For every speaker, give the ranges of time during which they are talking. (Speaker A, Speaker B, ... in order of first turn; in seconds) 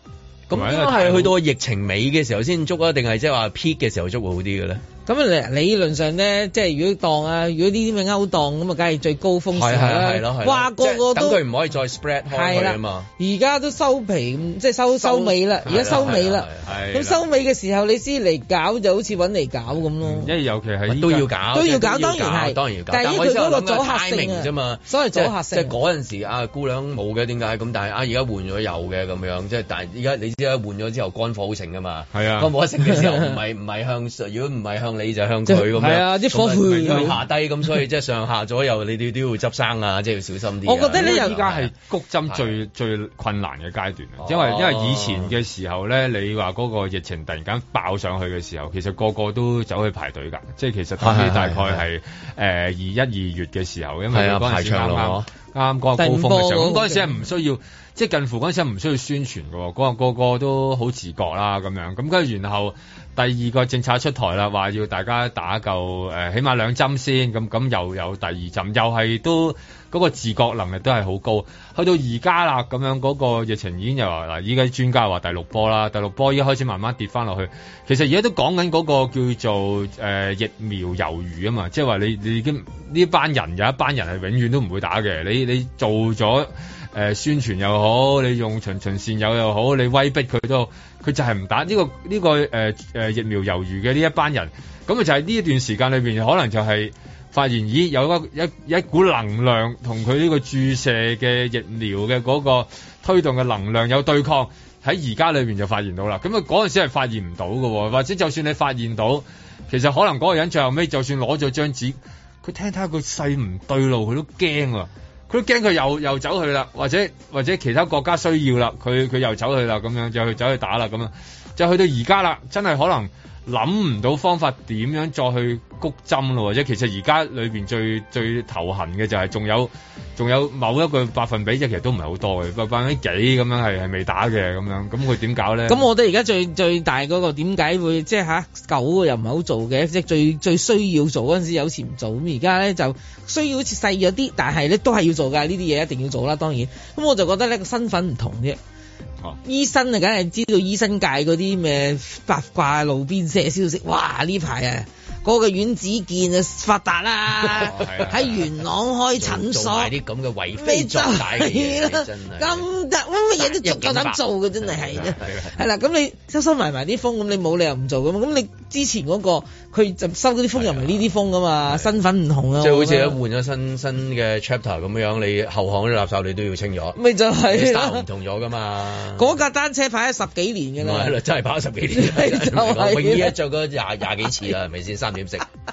Speaker A: 0.5-4.8, 9.5-13.1, 14.9-16.7, 20.9-41.7, 44.2-45.4, 51.0-51.8, 54.1-55.3, 157.6-158.3, 159.2-162.7, 163.4-165.5, 170.6-171.1, 172.6-179.4, 180.8-185.5
Speaker B: 0.5-1.4, 15.7-17.2, 20.0-21.3, 32.1-32.5, 36.6-37.1, 40.9-135.9, 157.5-158.4
Speaker C: 5.0-11.4, 12.3-20.3, 21.5-25.7, 32.9-33.3, 35.5-37.2, 40.6-41.4, 56.0-57.1, 135.7-148.6, 149.4-159.9, 160.6-173.2, 176.9-178.0, 179.2-181.2, 181.9-183.3